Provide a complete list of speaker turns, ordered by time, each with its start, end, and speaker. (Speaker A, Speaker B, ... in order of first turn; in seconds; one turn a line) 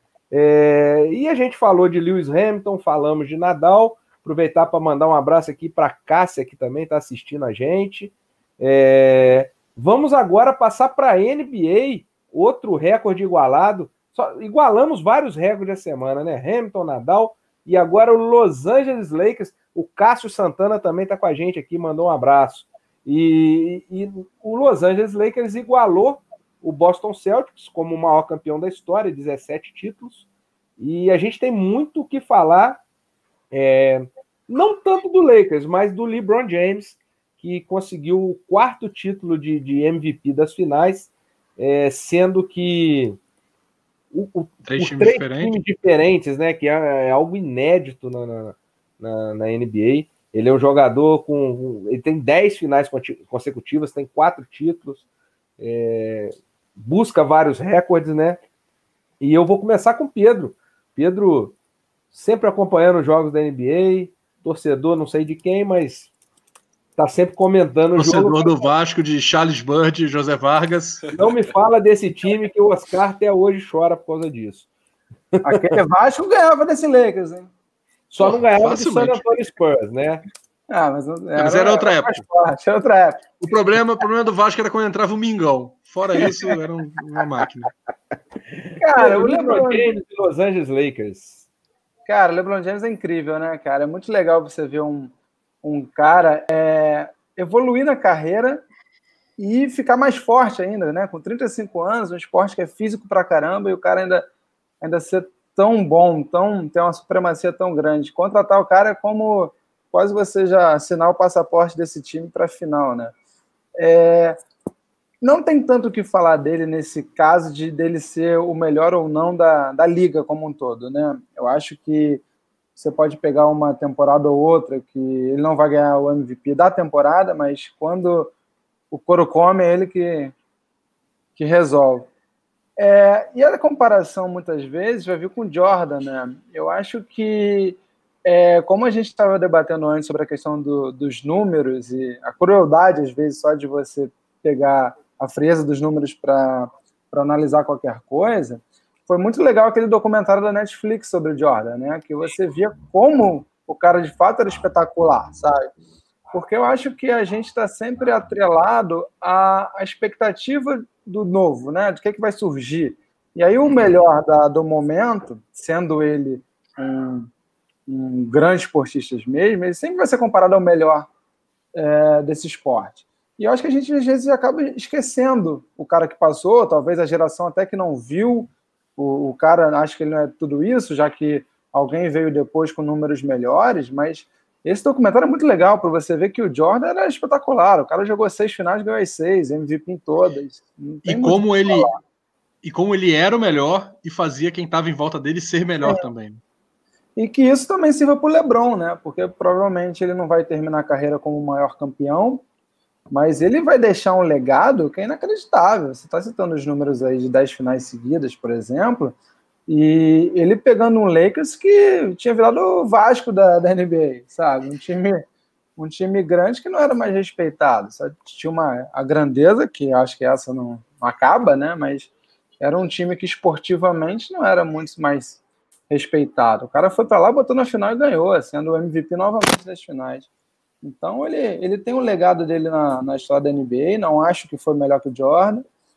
Speaker A: 0.3-30.2
Speaker A: 30.8-32.8
Speaker A: 33.5-43.2
Speaker A: 44.1-55.0
Speaker B: 44.6-45.6
Speaker A: 55.6-58.4
Speaker A: 59.2-61.5
Speaker A: 62.1-66.1
Speaker A: 67.0-68.5
Speaker B: 68.0-71.0
Speaker A: 71.1-74.7
Speaker A: 75.3-75.8
Speaker C: 75.4-77.5
Speaker A: 78.1-80.2
Speaker B: 78.2-79.2
Speaker C: 80.7-83.4
Speaker B: 81.3-82.2
Speaker B: 83.4-87.7
Speaker A: 88.5-91.4
Speaker C: 88.8-89.9
Speaker C: 92.1-98.6
Speaker C: 99.4-104.3
Speaker C: 104.8-113.2
Speaker C: 113.8-114.4
Speaker C: 115.2-122.2
Speaker C: 122.8-128.3
Speaker C: 128.9-130.3
Speaker C: 131.4-132.1
Speaker C: 132.8-155.7
Speaker C: 156.3-167.3
Speaker C: 167.9-171.1
Speaker C: 171.7-192.0
Speaker B: 191.1-191.9
Speaker B: 192.6-196.4
Speaker C: 197.2-202.4
Speaker C: 203.1-209.2
Speaker C: 209.7-215.2
Speaker C: 215.8-230.3
Speaker C: 230.8-235.7